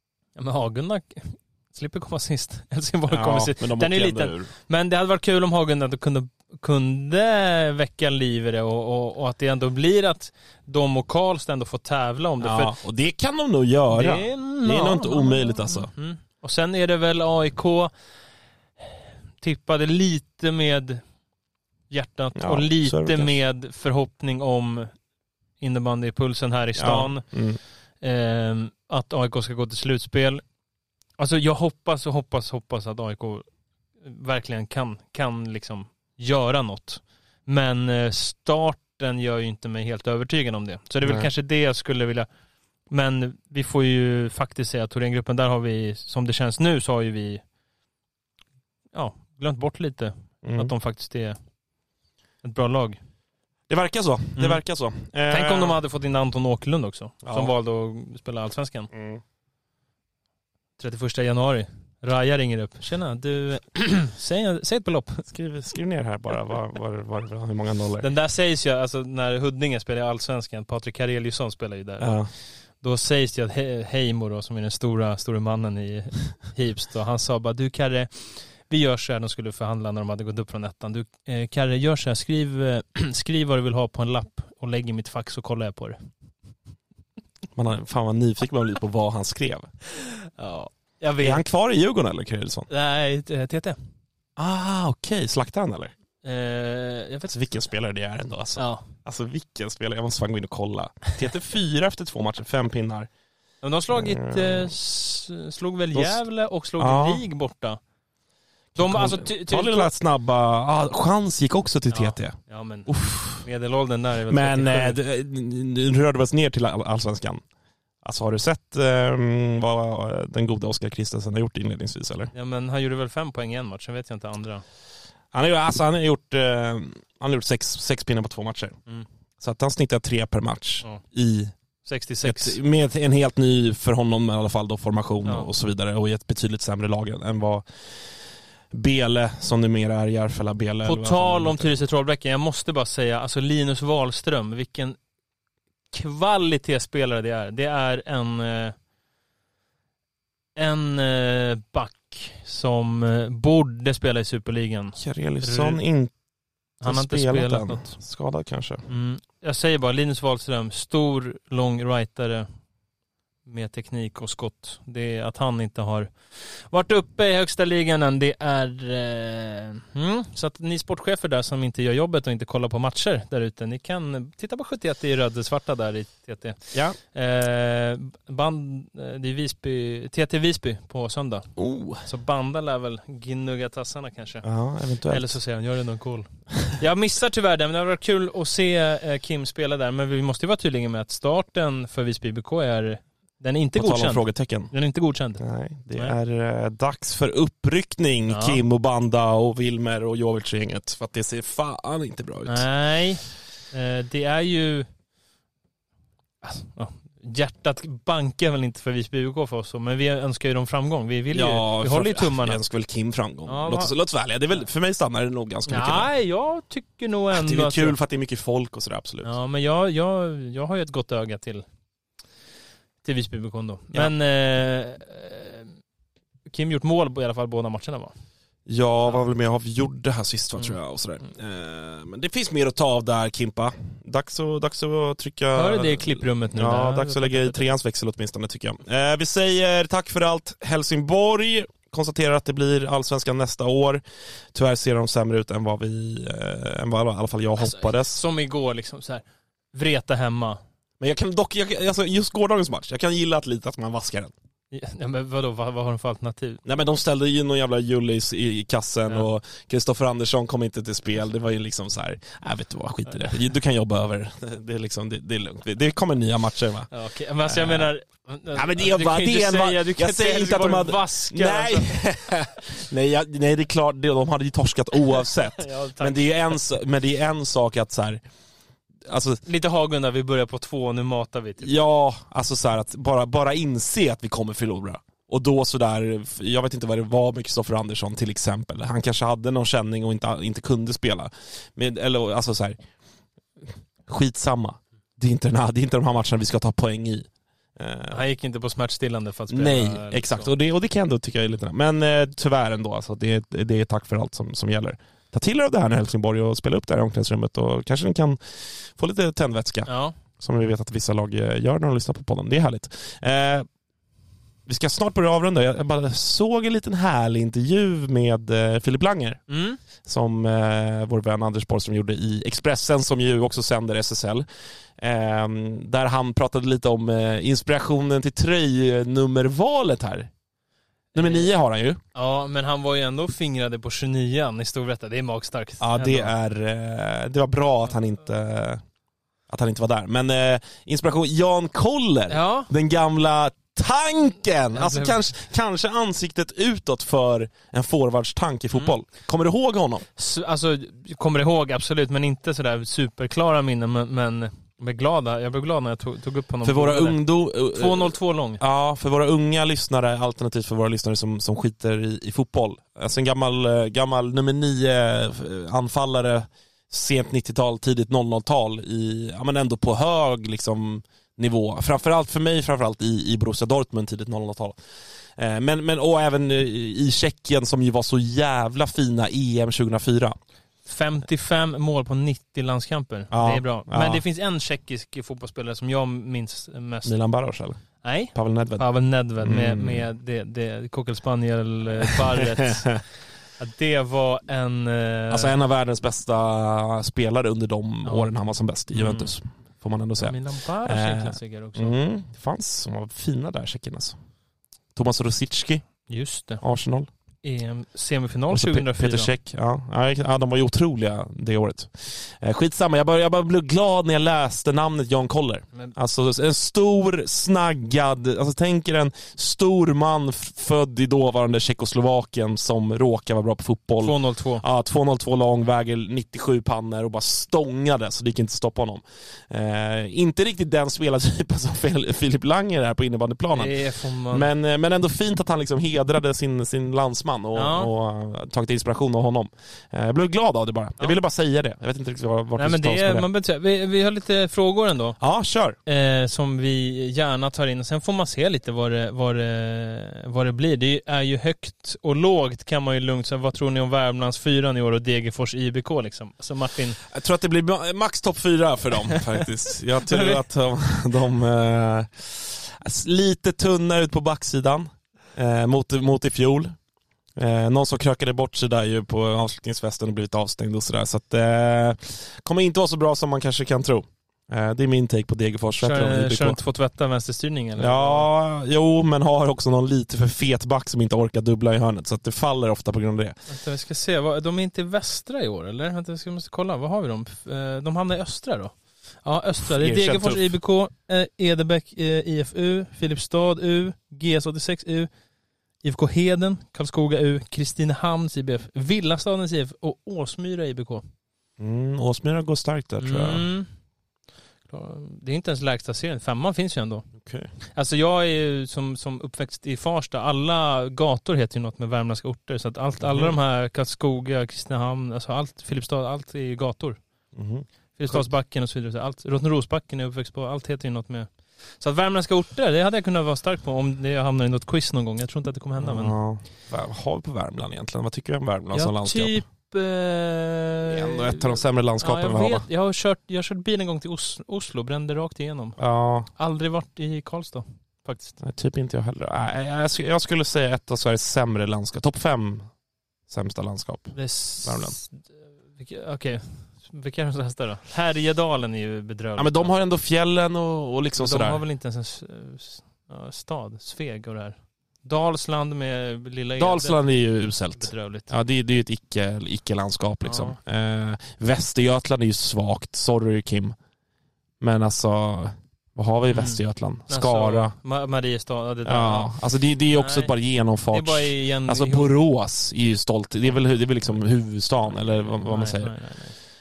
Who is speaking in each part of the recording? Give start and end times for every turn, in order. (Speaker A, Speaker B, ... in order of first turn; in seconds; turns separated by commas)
Speaker A: 0.4-12.8, Speaker B: 3.1-4.5, Speaker B: 12.4-15.9, Speaker A: 13.9-17.9, Speaker A: 19.4-21.0, Speaker A: 21.9-25.0, Speaker B: 22.4-23.4, Speaker A: 25.6-27.2, Speaker B: 26.8-27.6, Speaker A: 28.0-30.4, Speaker A: 31.2-33.5, Speaker A: 34.0-42.3, Speaker B: 41.0-41.3, Speaker A: 42.9-47.4, Speaker A: 48.9-51.4, Speaker B: 50.4-50.7, Speaker A: 52.4-53.0, Speaker B: 53.7-55.8, Speaker A: 54.4-54.6, Speaker A: 55.3-58.9, Speaker B: 57.2-57.5, Speaker B: 58.9-59.2, Speaker A: 60.8-65.2, Speaker B: 65.3-68.1, Speaker A: 68.0-86.1, Speaker B: 72.0-72.3, Speaker B: 87.6-89.7, Speaker A: 90.2-91.4, Speaker B: 91.2-92.7, Speaker A: 92.7-93.8, Speaker B: 94.4-95.9, Speaker A: 96.2-97.3, Speaker B: 97.3-103.1, Speaker A: 98.6-98.9, Speaker A: 103.6-107.8, Speaker B: 103.9-104.7, Speaker B: 105.9-106.2, Speaker B: 106.8-107.2, Speaker B: 108.8-113.5, Speaker A: 108.8-109.9, Speaker A: 111.9-115.0, Speaker B: 114.3-117.4, Speaker B: 118.0-122.3, Speaker A: 122.3-124.6, Speaker B: 125.3-128.8, Speaker B: 129.4-131.5, Speaker A: 131.8-132.6, Speaker B: 132.2-137.7, Speaker B: 138.7-141.8, Speaker A: 140.8-145.0, Speaker A: 145.9-148.8, Speaker A: 150.6-155.8, Speaker B: 155.0-156.1, Speaker A: 156.8-158.0, Speaker B: 156.8-158.9, Speaker A: 158.9-162.5, Speaker A: 163.4-184.4, Speaker B: 181.6-182.1, Speaker B: 184.4-185.3, Speaker A: 185.1-195.4, Speaker B: 193.8-194.7, Speaker B: 195.4-202.7, Speaker A: 198.3-198.6, Speaker A: 202.5-204.9, Speaker A: 206.4-212.6, Speaker B: 211.3-216.1, Speaker A: 213.5-213.9, Speaker A: 215.7-218.0, Speaker B: 217.3-219.3, Speaker A: 219.2-221.6, Speaker A: 223.0-225.7, Speaker A: 226.5-228.1, Speaker B: 228.7-244.0, Speaker A: 235.6-237.6, Speaker B: 244.5-248.2, Speaker A: 247.6-250.6, Speaker B: 251.0-254.3, Speaker A: 254.7-256.6, Speaker B: 256.6-266.9, Speaker A: 266.9-272.0, Speaker B: 267.5-267.9, Speaker B: 268.5-278.2, Speaker A: 275.1-276.6, Speaker B: 279.1-279.4, Speaker A: 279.5-281.7, Speaker B: 281.6-292.8, Speaker B: 294.1-298.2, Speaker A: 298.1-300.5, Speaker B: 299.5-313.7, Speaker A: 309.9-310.2, Speaker B: 314.7-319.4, Speaker A: 319.5-319.8, Speaker B: 320.0-324.5, Speaker B: 325.0-330.3, Speaker A: 331.1-331.5, Speaker B: 331.1-332.0, Speaker A: 332.1-336.3, Speaker B: 335.8-338.8, Speaker B: 339.5-350.1, Speaker A: 342.3-342.7, Speaker A: 344.7-345.2, Speaker A: 350.2-357.2, Speaker B: 356.6-374.8, Speaker A: 357.7-358.6, Speaker B: 375.4-380.4, Speaker A: 380.9-387.1, Speaker B: 383.3-384.2, Speaker B: 387.1-388.9, Speaker A: 388.0-395.6, Speaker B: 389.4-390.1, Speaker B: 392.0-393.0, Speaker B: 395.3-404.2, Speaker A: 398.1-398.3, Speaker A: 398.9-399.3, Speaker A: 400.2-402.0, Speaker B: 404.9-405.9, Speaker A: 406.1-406.6, Speaker B: 406.6-407.1, Speaker A: 407.4-409.3, Speaker B: 408.5-443.3, Speaker A: 424.0-424.6, Speaker A: 433.5-434.5, Speaker A: 437.6-437.9, Speaker A: 442.6-445.2, Speaker B: 445.2-445.8, Speaker A: 445.9-457.0, Speaker B: 457.1-466.8, Speaker A: 460.1-460.4, Speaker B: 467.4-476.6, Speaker A: 475.8-478.3, Speaker B: 477.8-483.4, Speaker A: 483.5-495.1, Speaker B: 489.6-490.5, Speaker A: 495.8-501.1, Speaker B: 501.6-503.5, Speaker A: 503.0-503.7, Speaker A: 504.7-507.1, Speaker B: 507.2-507.5, Speaker A: 507.6-517.0, Speaker B: 513.0-513.4, Speaker B: 517.4-518.3, Speaker A: 517.9-526.2, Speaker B: 525.8-529.4, Speaker A: 528.7-535.8, Speaker B: 530.9-532.7, Speaker B: 535.8-536.3, Speaker A: 536.3-538.4, Speaker B: 538.4-542.8, Speaker B: 543.3-545.0, Speaker A: 544.1-549.7, Speaker B: 549.4-551.6, Speaker A: 551.2-557.1, Speaker B: 556.6-563.8, Speaker A: 557.7-558.3, Speaker A: 560.2-560.6, Speaker B: 564.6-567.8, Speaker A: 566.3-569.4, Speaker B: 568.9-576.0, Speaker A: 569.9-570.3, Speaker A: 570.9-572.1, Speaker A: 574.9-576.4